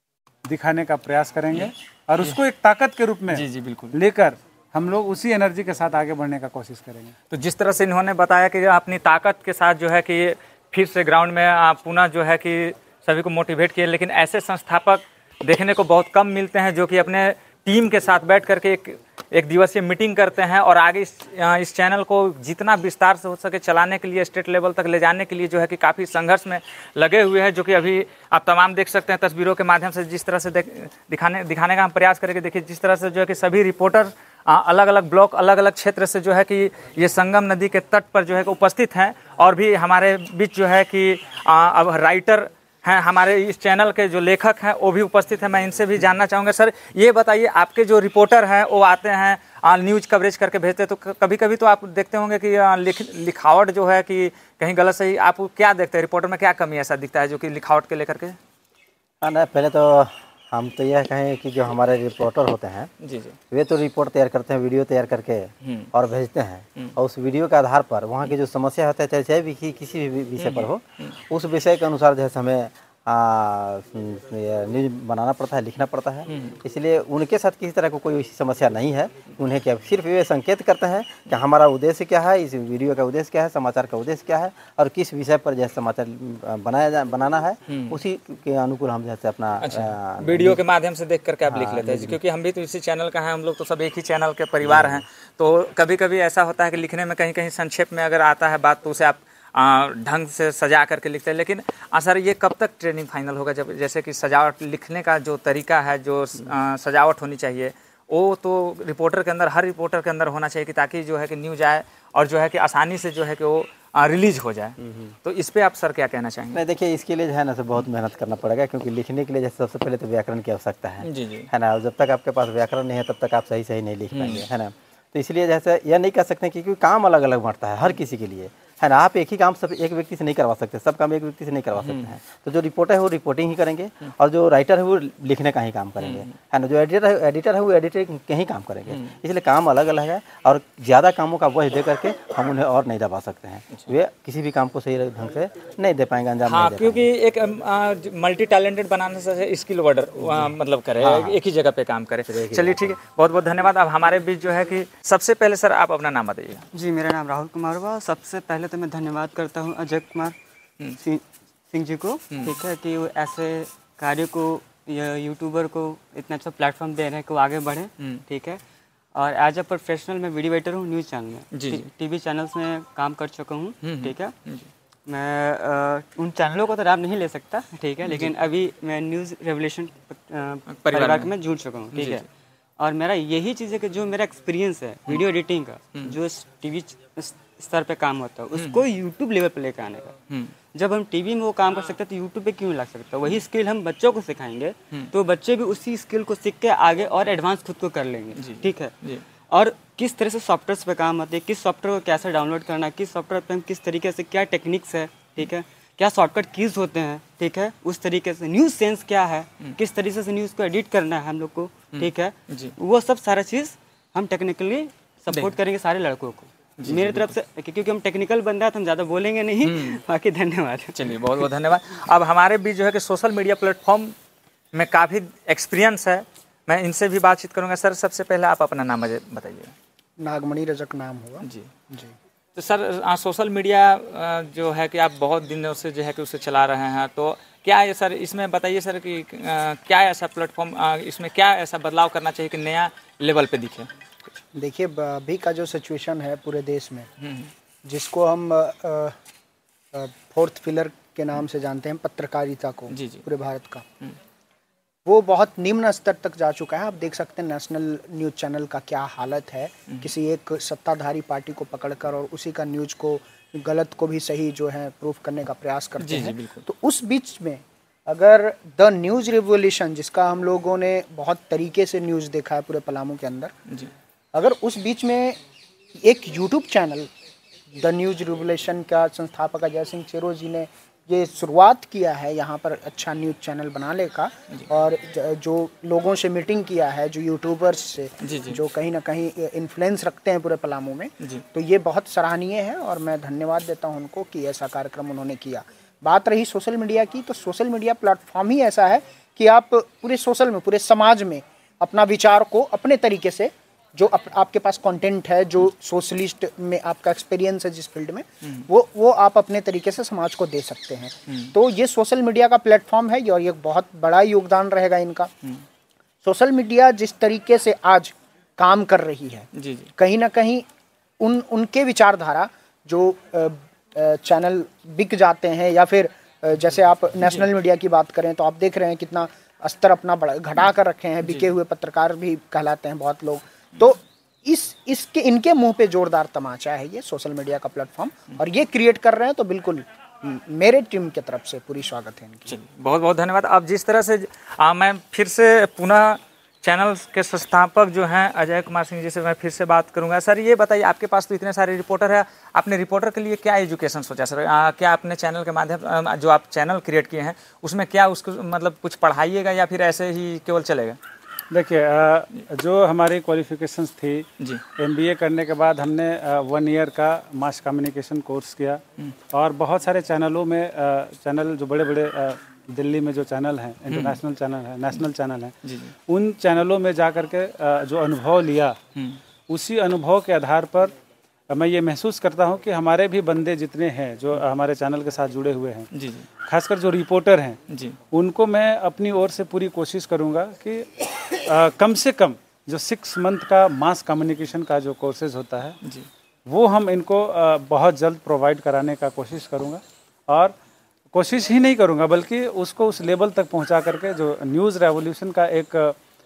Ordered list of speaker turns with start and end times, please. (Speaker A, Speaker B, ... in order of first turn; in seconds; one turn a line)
Speaker A: 0.5-7.1
Speaker B: 1.5-2.4
Speaker B: 3.3-3.9
Speaker B: 7.3-58.4
Speaker C: 59.2-62.9
Speaker B: 63.0-63.4
Speaker C: 63.5-90.6
Speaker B: 70.4-71.1
Speaker B: 76.3-76.6
Speaker B: 87.7-88.0
Speaker B: 89.6-116.6
Speaker C: 91.5-92.2
Speaker C: 94.6-95.0
Speaker C: 114.8-115.1
Speaker C: 116.5-147.1
Speaker B: 121.0-121.5
Speaker B: 124.1-124.4
Speaker B: 131.8-132.2
Speaker B: 136.0-136.3
Speaker B: 146.4-156.6
Speaker C: 150.2-151.4
Speaker C: 152.3-152.9
Speaker D: 156.7-160.3
Speaker D: 161.0-168.6
Speaker B: 162.3-162.6
Speaker D: 169.1-174.3
Speaker B: 171.5-171.8
Speaker B: 173.8-174.7
Speaker D: 175.1-182.2
Speaker B: 178.1-178.3
Speaker B: 180.7-181.3
Speaker B: 181.9-182.2
Speaker D: 182.8-190.1
Speaker B: 188.5-188.8
Speaker D: 190.7-198.9
Speaker B: 198.4-199.2
Speaker D: 199.5-221.5
Speaker B: 211.9-212.7
Speaker B: 216.8-217.3
Speaker B: 219.6-220.0
Speaker B: 220.9-224.1
Speaker B: 224.7-229.7
Speaker E: 230.2-232.1
Speaker B: 231.4-231.7
Speaker B: 232.6-243.9
Speaker E: 244.5-247.1
Speaker B: 247.2-247.5
Speaker E: 247.8-249.1
Speaker E: 249.9-253.8
Speaker B: 252.9-253.2
Speaker E: 255.1-273.5
Speaker B: 266.0-266.6
Speaker E: 274.3-275.4
Speaker E: 276.0-277.1
Speaker E: 277.8-315.3
Speaker B: 288.2-288.6
Speaker E: 316.2-320.6
Speaker B: 319.5-319.9
Speaker E: 321.2-342.5
Speaker B: 342.5-361.0
Speaker A: 361.5-364.2
Speaker A: 364.8-375.5
Speaker B: 373.9-374.2
Speaker B: 375.6-375.9
Speaker A: 376.1-378.8
Speaker A: 379.5-380.9
Speaker A: 381.5-385.9
Speaker B: 385.9-386.3
Speaker A: 386.4-387.6
Speaker B: 387.7-388.0
Speaker A: 388.1-395.8
Speaker A: 396.5-400.6
Speaker A: 401.1-405.9